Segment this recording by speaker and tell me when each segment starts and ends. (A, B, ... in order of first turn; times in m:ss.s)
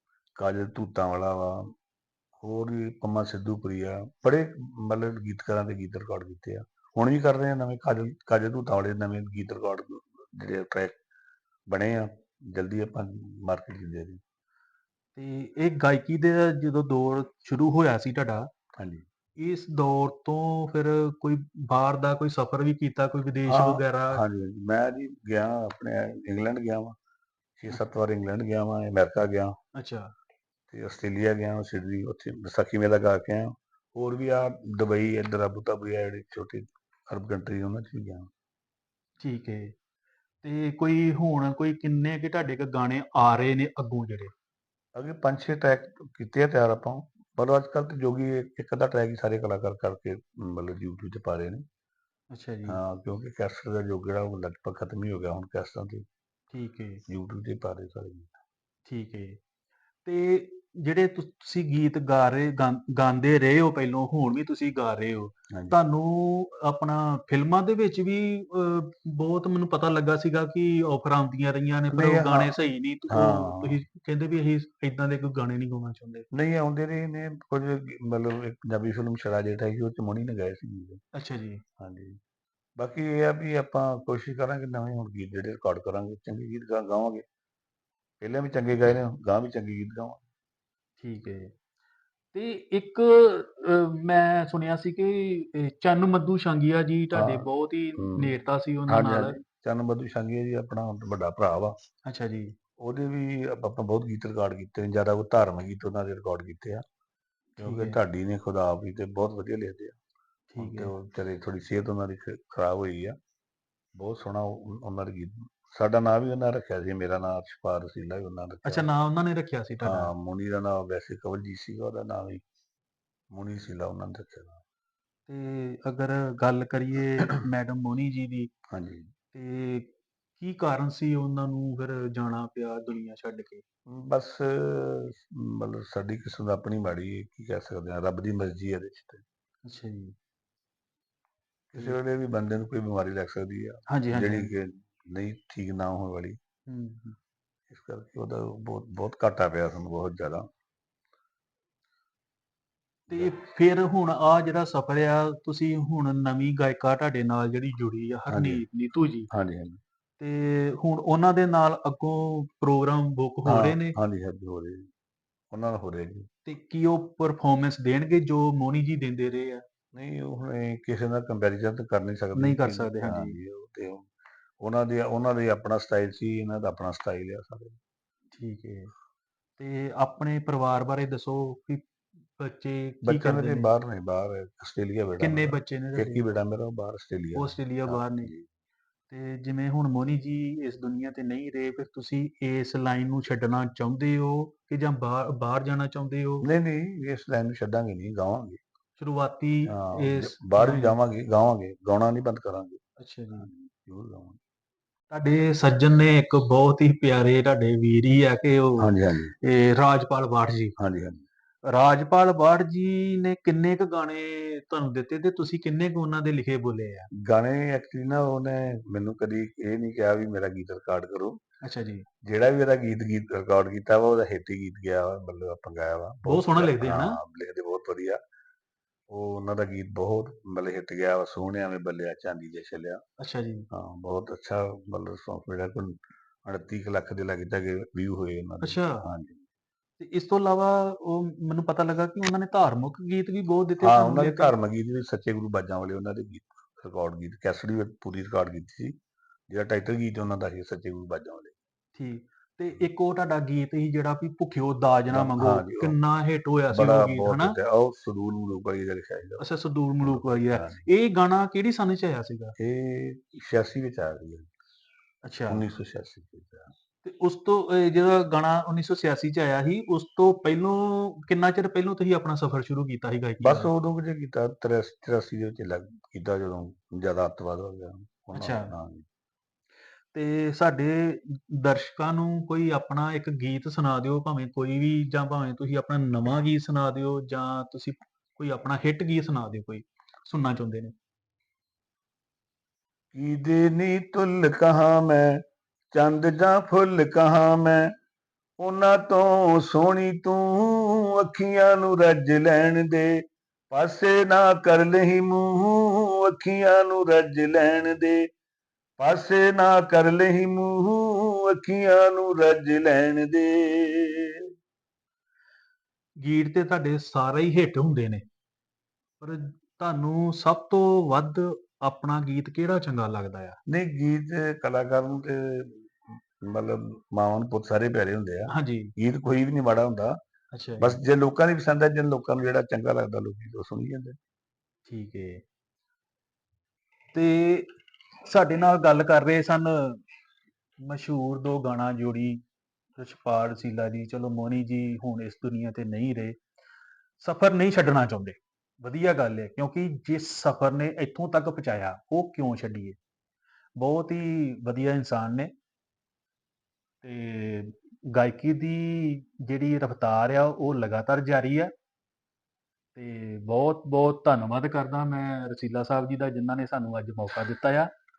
0:00.4-0:01.7 A
0:02.4-0:11.0 A
0:11.7-0:14.2 A
0:15.2-0:18.5 B
0:18.8-0:19.0 A
0:19.4-0:24.2 B
0:23.5-0:26.9 A
0:27.6-0:29.6 A
0:29.7-0:30.1 B
0:30.7-0:38.3 A
0:39.2-0:39.7 B
0:40.4-0:44.3 B
0:44.9-0:51.6 A
0:52.3-0:52.8 B
0:52.7-0:56.0 A
0:56.5-0:57.0 B
0:57.1-0:58.4 A
0:58.9-0:59.4 B
1:00.0-1:16.3 B
1:11.9-1:12.5 A
1:13.1-1:13.8 A
1:16.3-1:21.0 A
1:21.1-1:21.6 B
1:21.8-1:22.2 A
1:22.8-1:27.2 A
1:28.2-1:30.2 A
1:31.0-1:31.5 B
1:32.3-1:39.4 B
1:37.1-1:38.3 A
1:38.9-1:41.7 A
1:42.0-1:42.5 B
1:42.8-1:46.8 A
1:47.6-1:48.0 B
1:47.6-1:50.0 A
1:50.5-1:50.9 B
1:50.6-1:53.1 A
1:54.0-1:58.9 A
1:58.6-2:00.1 B
1:59.8-2:02.4 A
2:03.3-2:04.6 A
2:05.3-2:08.5 B
2:08.7-2:09.1 A
2:09.3-2:13.6 B
2:13.9-2:19.2 A
2:19.6-2:20.2 B
2:21.7-2:26.4 A
2:23.9-2:24.5 B
2:26.7-2:27.2 B
2:27.7-2:30.5 A
2:33.1-2:33.3 A
2:33.1-2:39.3 B
2:38.3-2:38.6 A
2:39.3-2:39.8 A
2:40.2-2:44.0 B
2:43.5-2:44.9 A
2:45.5-2:46.3 A
2:46.4-2:49.6 B
2:49.9-2:57.8 A
2:52.3-2:53.4 B
2:58.3-2:58.9 B
2:59.6-3:03.7 B
3:03.0-3:08.4 A
3:05.2-3:06.3 B
3:07.4-3:08.3 B
3:09.1-3:16.4 B
3:16.4-3:18.6 A
3:19.0-3:20.9 B
3:19.7-3:22.8 A
3:23.0-3:23.5 B
3:23.3-3:24.4 A
3:25.1-3:28.9 B
3:28.8-3:29.3 A
3:29.4-3:30.7 B
3:30.8-3:31.2 A
3:31.6-3:37.1 B
3:37.1-3:41.4 A
3:41.6-3:42.0 B
3:42.2-3:48.2 A
3:46.2-3:47.2 B
3:49.1-3:53.0 A
3:53.2-3:53.6 B
3:53.7-3:59.4 A
3:58.6-3:59.1 B
4:00.0-4:04.5 B
4:03.8-4:08.9 A
4:09.5-4:11.5 A
4:12.0-4:17.6 B
4:15.1-4:16.0 A
4:16.7-4:19.4 A
4:19.4-4:22.5 B
4:20.0-4:20.8 A
4:22.6-4:24.5 A
4:25.2-4:25.6 B
4:25.5-4:26.7 A
4:27.0-4:33.7 B
4:33.4-4:39.0 A
4:38.3-4:38.7 B
4:40.1-4:50.9 B
4:53.1-4:57.9 A
4:58.6-5:08.3 A
5:09.0-5:14.4 A
5:16.2-5:18.2 B
5:19.2-5:23.6 B
5:23.7-5:30.2 A
5:28.5-5:28.9 B
5:30.5-5:31.0 B
5:30.8-5:34.2 A
5:34.9-5:35.4 B
5:37.1-5:40.0 B
5:40.8-5:42.4 B
5:43.0-5:46.4 B
5:47.2-5:53.0 B
5:53.8-5:55.5 B
5:57.0-6:01.7 B
6:03.0-6:07.9 B